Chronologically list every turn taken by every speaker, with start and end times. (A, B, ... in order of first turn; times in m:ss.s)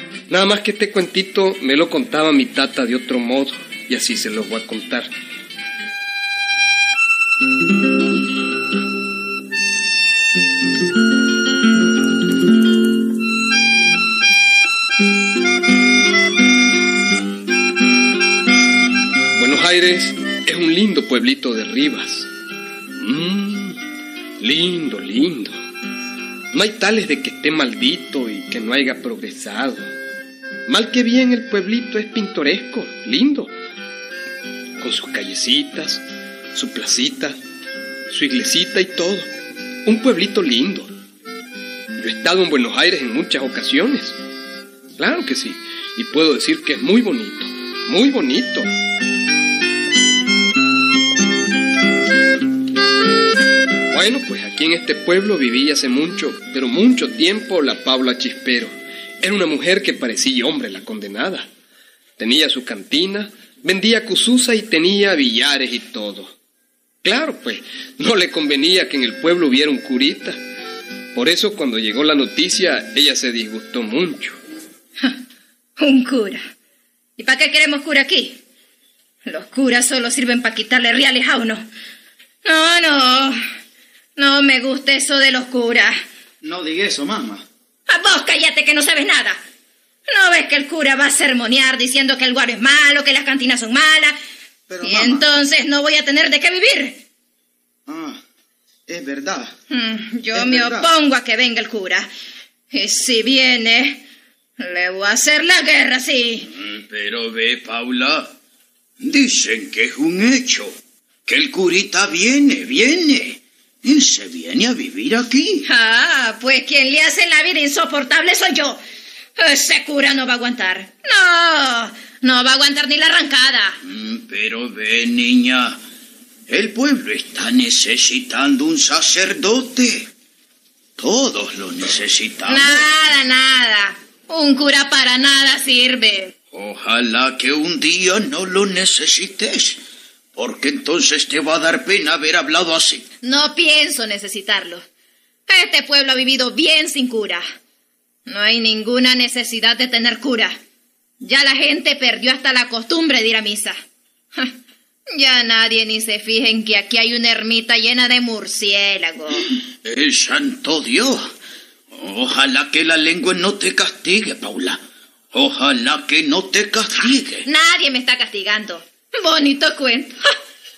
0:00.3-0:05.1 A
0:19.4-0:22.3 A
0:23.0-0:23.8 A
0:24.4-0:25.6 A
0:26.5-0:29.9 A
0:30.7-0:33.5 A
0:34.8-0:37.4 A
0:38.1-0:39.3 A
0:39.8-0:40.9 A
0:42.0-0:44.2 A
0:45.0-0:48.7 A
0:53.9-1:01.5 A
1:02.2-1:06.3 A
1:07.0-1:10.4 A
1:11.1-1:14.4 A
1:15.8-1:16.4 B
1:17.2-1:18.4 B
1:19.2-1:21.6 B
1:22.4-1:23.4 B
1:24.2-1:25.9 B
1:26.4-1:27.4 C
1:27.9-1:29.4 B
1:30.1-1:34.2 B
1:34.7-1:35.2 C
1:34.8-1:37.0 B
1:37.9-1:38.2 C
1:38.9-1:39.5 C
1:39.7-1:42.1 B
1:40.3-1:40.9 C
1:42.7-1:44.0 B
1:44.6-1:46.5 B
1:46.5-1:48.3 D
1:49.0-1:50.7 D
1:51.2-1:55.6 D
1:55.6-1:58.8 B
1:59.4-2:03.8 B
2:03.8-2:05.8 D
2:06.5-2:10.1 D
2:11.0-2:12.9 D
2:12.5-2:16.3 B
2:16.5-2:19.8 D
2:20.4-2:23.0 D
2:23.2-2:24.8 B
2:25.5-2:27.4 B
2:28.2-2:30.6 B
2:31.2-2:33.8 B
2:35.1-2:39.4 B
2:39.8-2:41.3 D
2:41.9-2:44.8 D
2:45.3-2:47.4 D
2:47.4-2:50.2 B